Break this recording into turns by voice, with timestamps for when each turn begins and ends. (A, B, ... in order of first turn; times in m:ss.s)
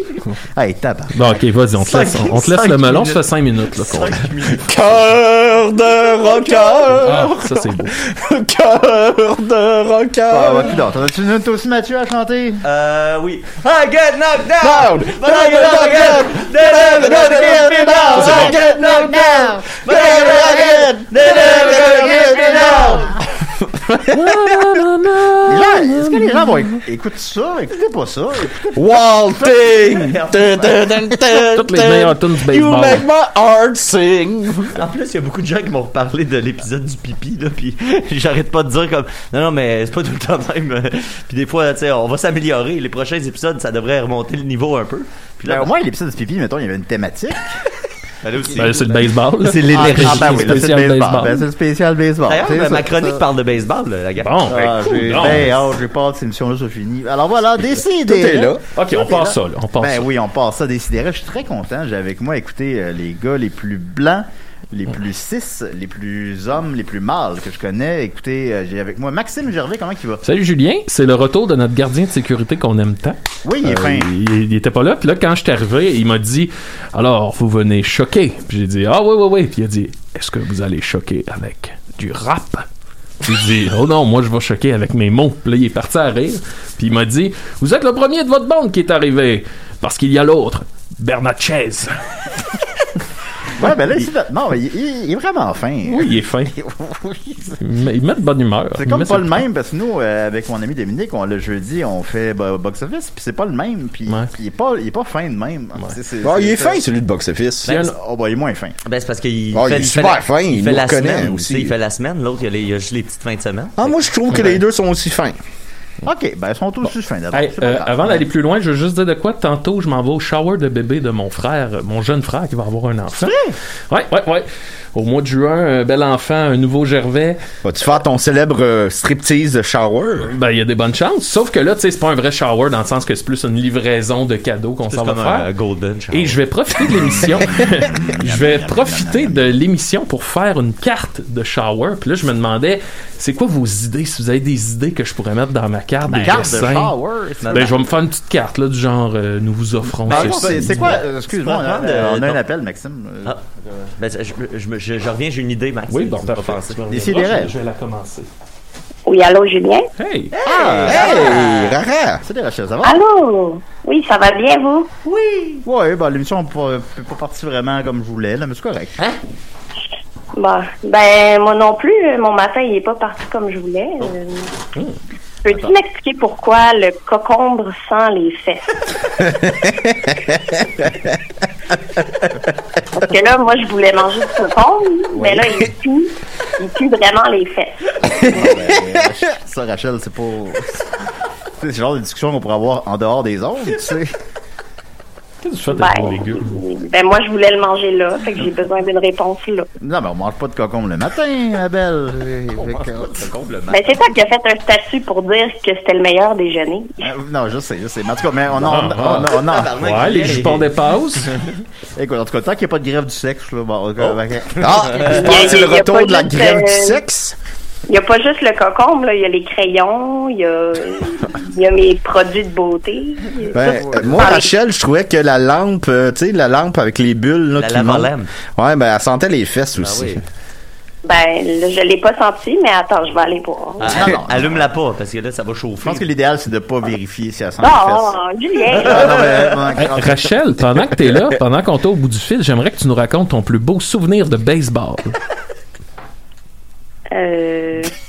0:00.5-0:01.1 A
0:01.1-0:04.3 B
0:01.8-0:04.7 C
0:04.6-0:10.8 D
0:06.2-0:06.9 C
0:07.0-0:07.9 B
0:10.3-0:12.6 A
0:12.6-0:23.2 C
0:14.6-0:24.8 D
0:18.2-0:18.5 B
0:24.1-0:26.6 B
0:25.5-0:30.2 A
0:28.7-0:34.8 D
0:30.0-0:30.6 C
0:31.3-0:33.0 B
0:34.7-0:45.7 C
0:45.4-0:47.5 A
0:48.2-0:50.6 C
0:48.6-0:51.5 B
0:49.7-0:53.2 A
0:52.2-0:54.7 C
0:54.2-0:55.6 B
0:54.4-1:10.2 A
0:58.0-0:58.6 D
0:58.7-1:00.1 B
1:10.2-1:22.6 B
1:13.4-1:14.1 A
1:23.2-1:32.0 B
1:33.6-1:37.6 A
1:35.8-1:36.6 B
1:37.6-1:39.4 B
1:38.8-1:46.8 A
1:44.1-1:44.3 B
1:46.2-1:47.7 D
1:47.7-1:47.9 B
1:47.7-1:48.8 A
1:48.8-1:54.0 C
1:49.5-1:51.7 D
1:53.8-1:55.4 D
1:56.0-1:58.2 A
1:56.9-2:03.3 B
2:03.2-2:03.6 A
2:03.9-2:07.4 B
2:07.6-2:10.3 D
2:10.2-2:15.5 B
2:14.9-2:16.4 C
2:16.1-2:26.9 B
2:16.9-2:19.5 A
2:26.1-2:27.7 A
2:26.2-2:26.5 C
2:27.4-2:27.7 C
2:27.5-2:31.0 B
2:30.0-2:33.3 A
2:30.1-2:32.4 C
2:33.2-2:36.8 C
2:35.9-2:38.3 B
2:36.9-2:37.5 A
2:39.1-2:39.9 E
2:40.0-2:40.3 B
2:40.3-2:41.8 C
2:40.4-2:41.4 A
2:40.8-2:42.2 D
2:42.2-2:43.0 A
2:42.8-2:44.9 E
2:45.0-2:45.6 C
2:45.6-2:49.0 A
2:50.3-2:54.5 E
2:55.4-2:58.8 E
2:59.3-3:01.1 D
3:02.9-3:07.8 E
3:05.1-3:05.6 A
3:08.1-3:08.5 D
3:08.1-3:10.7 A
3:11.6-3:14.1 A
3:15.4-3:16.6 B
3:15.7-3:19.7 E
3:19.8-3:23.2 A
3:22.2-3:23.9 C
3:23.7-3:27.0 E
3:27.0-3:29.8 A
3:28.6-3:31.4 B
3:29.3-3:30.7 C
3:32.0-3:35.5 A
3:34.0-3:35.4 C
3:34.6-3:37.4 D
3:35.2-3:37.0 E
3:37.9-3:43.6 E
3:43.5-3:44.2 A
3:43.5-3:50.2 D
3:44.2-3:44.5 E
3:47.6-3:48.3 C
3:49.8-3:50.2 C
3:51.0-3:54.0 E
3:53.8-3:56.1 C
3:53.9-3:54.7 A
3:55.8-3:58.2 A
3:57.6-3:59.2 E
3:58.7-4:00.3 A
3:58.8-3:59.6 C
3:59.8-4:05.2 B
4:07.1-4:07.9 E